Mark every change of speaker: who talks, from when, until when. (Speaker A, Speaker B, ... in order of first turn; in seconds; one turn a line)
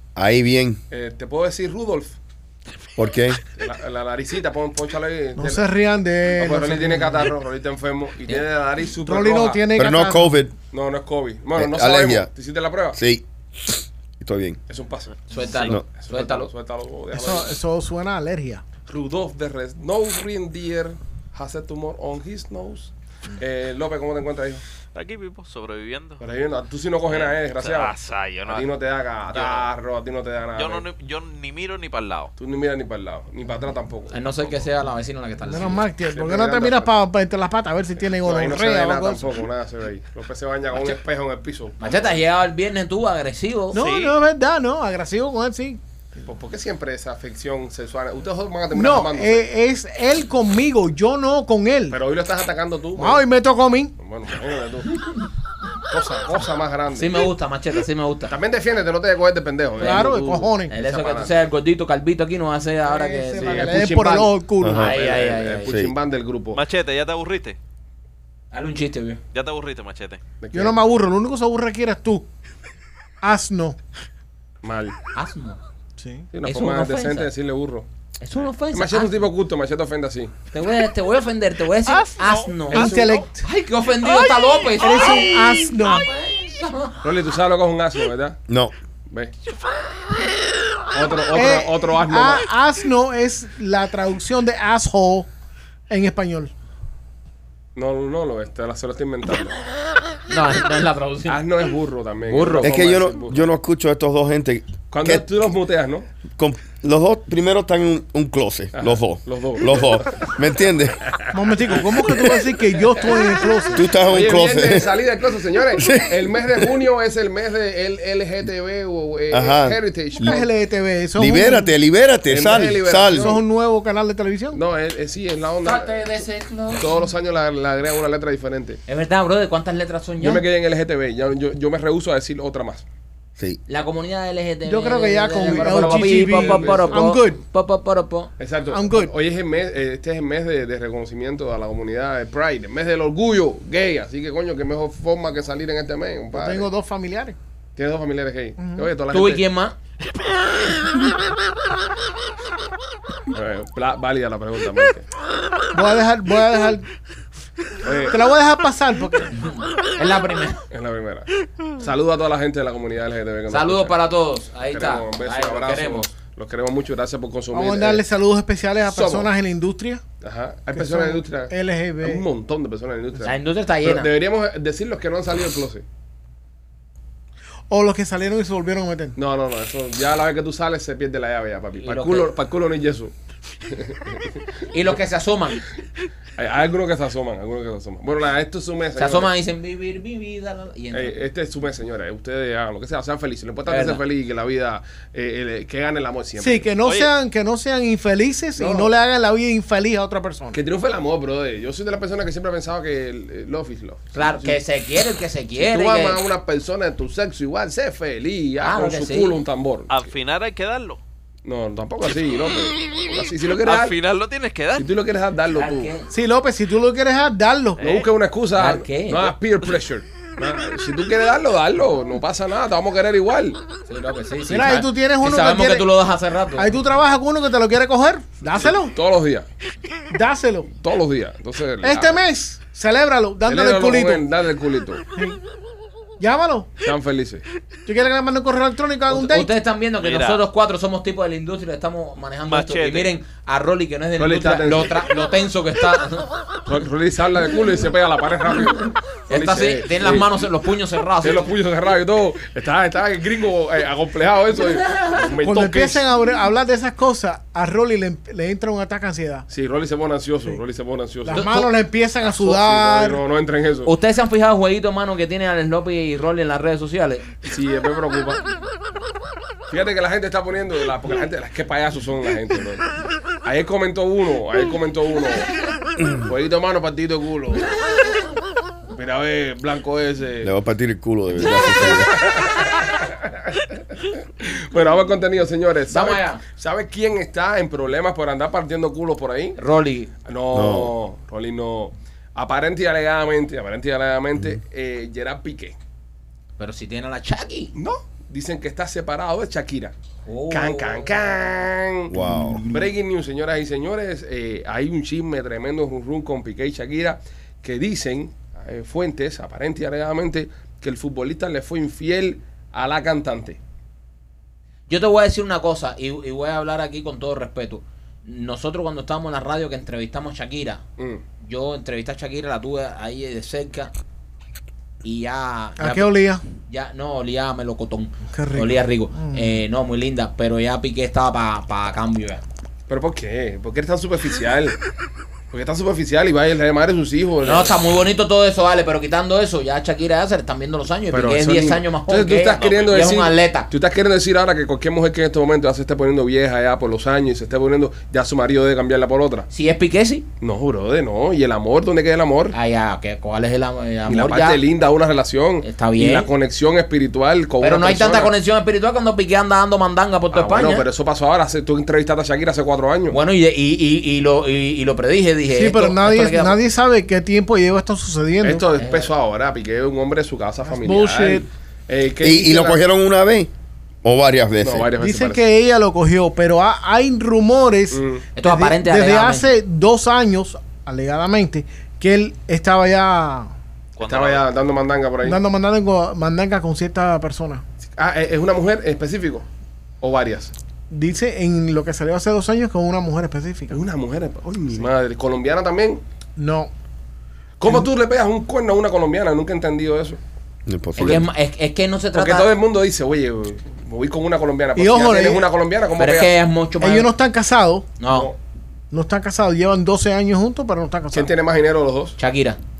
Speaker A: 0.1-0.8
Speaker B: 0.9-2.1
Speaker A: 3.0-3.4
Speaker B: 3.5-5.7
Speaker C: 5.4-7.2
Speaker B: 6.4-9.6
Speaker C: 9.1-10.3
Speaker A: 9.8-10.5
Speaker B: 10.7-13.0
Speaker A: 11.5-12.3
Speaker A: 12.9-14.6
Speaker B: 14.7-17.5
Speaker D: 15.3-16.5
Speaker C: 17.1-18.6
Speaker B: 18.9-24.6
Speaker E: 24.9-26.2
Speaker B: 26.2-27.9
Speaker E: 27.1-28.7
Speaker B: 28.5-30.8
Speaker E: 29.3-29.7
Speaker E: 30.6-32.3
Speaker B: 32.4-34.2
Speaker D: 34.1-35.9
Speaker C: 35.5-39.3
Speaker B: 36.0-36.9
Speaker B: 38.2-42.1
Speaker D: 41.8-43.8
Speaker C: 43.7-45.8
Speaker E: 43.7-44.2
Speaker B: 46.2-49.4
Speaker C: 48.7-52.0
Speaker B: 51.9-53.2
Speaker C: 53.0-53.9
Speaker B: 54.0-55.0
Speaker B: 55.9-57.3
Speaker D: 56.9-58.3
Speaker B: 58.2-61.3
Speaker C: 59.8-60.7
Speaker D: 59.8-60.1
Speaker D: 60.7-63.8
Speaker C: 62.9-64.9
Speaker B: 63.4-66.6
Speaker A: 64.6-64.9
Speaker D: 64.7-65.7
Speaker A: 65.7-65.9
Speaker E: 66.5-67.6
Speaker D: 68.5-69.2
Speaker E: 69.3-70.2
Speaker B: 70.4-70.8
Speaker C: 70.5-72.2
Speaker C: 73.2-73.8
Speaker B: 74.6-75.0
Speaker D: 75.1-75.6
Speaker C: 76.0-76.3
Speaker B: 76.3-77.8
Speaker D: 76.4-77.3
Speaker D: 78.2-79.1
Speaker B: 78.7-80.3
Speaker D: 80.5-87.0
Speaker E: 82.2-83.0
Speaker C: 82.7-83.4
Speaker B: 82.7-83.2
Speaker C: 84.8-86.1
Speaker B: 87.0-88.4
Speaker A: 88.5-88.7
Speaker B: 90.9-92.4
Speaker C: 91.3-95.3
Speaker C: 95.9-96.5
Speaker B: 97.7-99.6
Speaker D: 100.3-101.4
Speaker B: 101.3-103.4
Speaker D: 102.3-102.8
Speaker A: 102.6-105.2
Speaker B: 104.9-106.0
Speaker A: 106.3-111.0
Speaker B: 108.7-110.3
Speaker B: 111.1-111.3
Speaker C: 111.3-113.9
Speaker A: 113.7-114.9
Speaker B: 114.0-120.5
Speaker A: 115.8-116.6
Speaker A: 119.3-120.4
Speaker C: 120.2-121.7
Speaker A: 121.2-123.4
Speaker B: 122.3-123.4
Speaker C: 123.1-124.6
Speaker B: 124.5-126.1
Speaker D: 125.6-127.0
Speaker B: 126.7-128.8
Speaker D: 128.9-130.4
Speaker B: 130.2-132.8
Speaker D: 133.7-138.3
Speaker C: 134.7-137.4
Speaker B: 135.4-137.2
Speaker B: 138.4-146.7
Speaker C: 138.7-139.1
Speaker C: 146.3-147.4
Speaker B: 147.8-149.4
Speaker C: 148.6-148.9
Speaker D: 149.1-149.8
Speaker B: 153.3-155.1
Speaker C: 155.7-156.8
Speaker B: 157.8-158.2
Speaker C: 158.1-159.3
Speaker D: 159.3-160.6
Speaker B: 160.7-163.9
Speaker D: 163.5-166.1
Speaker B: 164.7-168.0
Speaker C: 167.5-170.0
Speaker B: 168.9-169.3
Speaker B: 170.2-175.8
Speaker C: 170.7-172.2
Speaker D: 173.2-174.1
Speaker C: 177.7-179.2
Speaker B: 179.2-183.1
Speaker D: 181.8-182.3
Speaker B: 183.7-184.3
Speaker D: 184.7-185.6
Speaker B: 186.4-189.3
Speaker D: 188.9-191.2
Speaker B: 190.9-196.7
Speaker D: 193.7-194.0
Speaker C: 196.4-200.6
Speaker E: 196.8-197.1
Speaker B: 198.6-198.9
Speaker B: 200.5-204.6
Speaker D: 204.1-206.2
Speaker B: 205.6-210.1
Speaker D: 208.6-209.4
Speaker E: 209.9-211.0
Speaker B: 211.4-213.9
Speaker E: 213.6-214.9
Speaker B: 214.8-215.9
Speaker D: 215.5-216.1
Speaker C: 216.1-217.8
Speaker E: 217.8-218.1
Speaker B: 217.8-223.6
Speaker D: 218.6-219.3
Speaker D: 223.9-226.7
Speaker C: 224.5-225.9
Speaker C: 226.6-228.9
Speaker B: 228.5-229.5
Speaker C: 230.1-230.7
Speaker B: 230.7-232.2
Speaker C: 231.8-234.2
Speaker B: 233.4-235.0
Speaker C: 236.2-236.7
Speaker B: 236.8-237.4
Speaker C: 237.8-239.5
Speaker D: 239.1-246.3
Speaker E: 240.0-240.4
Speaker E: 242.5-243.1
Speaker B: 244.2-245.0
Speaker B: 246.7-250.5
Speaker D: 249.3-251.5
Speaker B: 251.2-256.0
Speaker D: 254.9-255.1
Speaker C: 255.4-259.5
Speaker B: 259.5-261.6
Speaker C: 261.2-263.2
Speaker D: 261.3-261.7
Speaker B: 262.2-263.9
Speaker D: 263.8-267.3
Speaker B: 267.4-268.4
Speaker B: 269.7-272.8
Speaker B: 273.4-275.5
Speaker B: 276.1-277.7
Speaker B: 278.9-280.5
Speaker A: 280.4-282.2
Speaker B: 281.5-283.3
Speaker B: 284.0-289.6
Speaker D: 285.9-286.4
Speaker D: 289.6-290.1
Speaker B: 290.2-295.8
Speaker A: 290.5-290.9
Speaker D: 296.6-297.7
Speaker B: 297.7-299.9
Speaker D: 300.2-301.1
Speaker B: 300.5-313.6
Speaker A: 302.1-302.6
Speaker D: 302.2-302.9
Speaker D: 314.9-320.8
Speaker B: 321.0-321.2
Speaker D: 321.4-323.9
Speaker D: 325.0-326.1
Speaker C: 325.8-326.4
Speaker D: 326.6-332.4
Speaker C: 328.3-329.5
Speaker B: 332.9-334.8
Speaker B: 335.5-337.8
Speaker D: 337.4-343.7
Speaker B: 341.1-349.5
Speaker E: 342.6-343.1
Speaker D: 349.5-350.2
Speaker B: 350.4-352.6
Speaker D: 352.5-354.6
Speaker B: 354.1-358.3
Speaker D: 355.6-356.3
Speaker D: 357.6-360.9
Speaker B: 360.3-363.2
Speaker D: 363.1-366.6
Speaker C: 365.5-368.6
Speaker B: 368.4-372.8
Speaker D: 368.7-369.1
Speaker C: 370.7-371.4
Speaker A: 372.2-373.5
Speaker A: 374.0-374.9
Speaker B: 374.6-375.4
Speaker C: 375.0-383.5
Speaker B: 377.9-378.3
Speaker D: 378.3-379.5
Speaker E: 384.0-384.4
Speaker B: 384.0-385.4
Speaker C: 385.2-387.6
Speaker B: 387.9-389.4
Speaker B: 390.0-390.5
Speaker C: 390.9-393.8
Speaker B: 393.7-396.0
Speaker C: 396.4-396.7
Speaker B: 397.6-400.2
Speaker A: 400.7-401.2
Speaker D: 401.0-402.5
Speaker B: 401.0-401.2
Speaker B: 402.1-406.3
Speaker C: 404.8-405.5
Speaker D: 406.0-407.1
Speaker C: 406.8-407.9
Speaker D: 408.0-408.3
Speaker B: 408.1-408.4
Speaker C: 408.9-411.3
Speaker B: 411.1-412.2
Speaker D: 412.2-412.6